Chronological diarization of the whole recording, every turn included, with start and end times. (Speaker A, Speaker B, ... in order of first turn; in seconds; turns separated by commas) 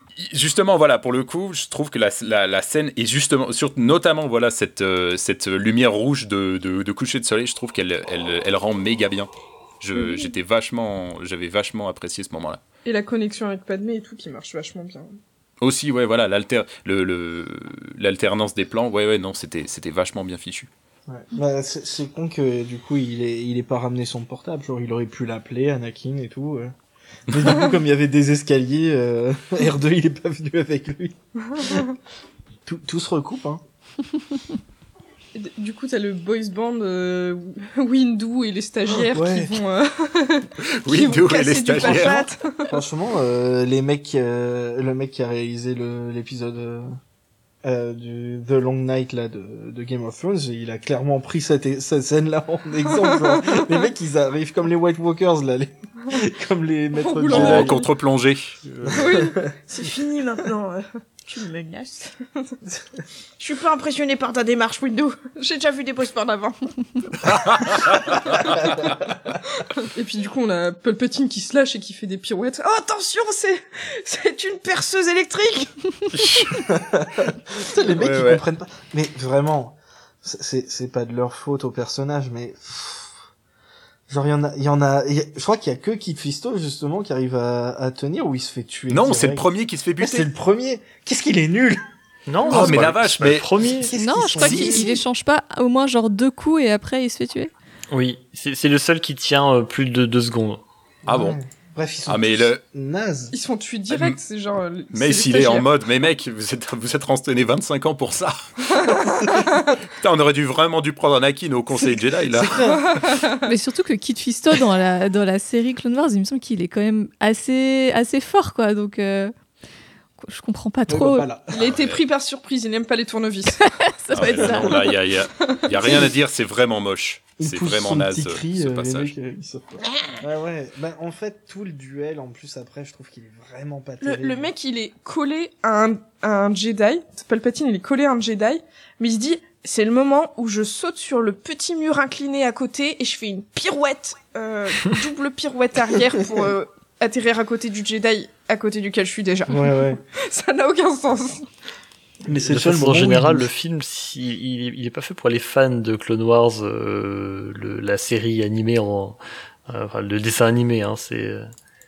Speaker A: 0.3-9.3, Speaker A: 9.8-12.6, Speaker B: 9.9-10.3, Speaker B: 12.8-15.2, Speaker A: 15.6-20.7, Speaker C: 21.1-26.7, Speaker C: 27.3-31.9, Speaker B: 31.5-31.9, Speaker C: 32.7-33.6, Speaker B: 35.4-42.8, Speaker C: 38.9-39.6, Speaker A: 40.8-42.3, Speaker C: 41.8-42.1, Speaker C: 42.7-47.0, Speaker C: 47.6-57.9, Speaker B: 52.9-53.8, Speaker B: 57.0-57.9, Speaker A: 57.3-58.6, Speaker C: 58.8-59.5, Speaker B: 59.0-62.6, Speaker B: 63.4-67.8, Speaker A: 67.3-68.4, Speaker B: 68.5-68.9, Speaker C: 68.6-69.4, Speaker B: 69.6-76.6, Speaker A: 76.2-76.6, Speaker C: 76.6-83.2, Speaker A: 78.0-78.4, Speaker C: 84.1-91.8, Speaker A: 88.9-90.3, Speaker D: 92.3-94.5, Speaker A: 92.5-93.5, Speaker C: 92.5-92.9, Speaker C: 93.6-95.0, Speaker E: 94.0-97.5, Speaker D: 97.9-100.6, Speaker C: 101.1-103.3, Speaker A: 101.1-101.4, Speaker A: 102.1-102.6, Speaker B: 103.3-105.7, Speaker A: 103.9-104.2, Speaker A: 104.9-108.5, Speaker B: 108.8-109.7, Speaker C: 108.9-109.3, Speaker A: 110.0-112.6, Speaker C: 111.8-112.9, Speaker B: 112.6-113.5, Speaker E: 113.5-119.3, Speaker E: 120.2-121.3, Speaker C: 120.9-121.8, Speaker B: 121.5-123.6, Speaker A: 121.6-122.0, Speaker E: 123.6-124.8, Speaker A: 124.1-129.1, Speaker B: 124.2-124.9, Speaker B: 125.5-126.1, Speaker C: 127.4-134.5, Speaker B: 134.0-151.5, Speaker C: 146.2-146.5, Speaker C: 149.5-150.0, Speaker C: 152.3-153.5, Speaker D: 152.4-161.5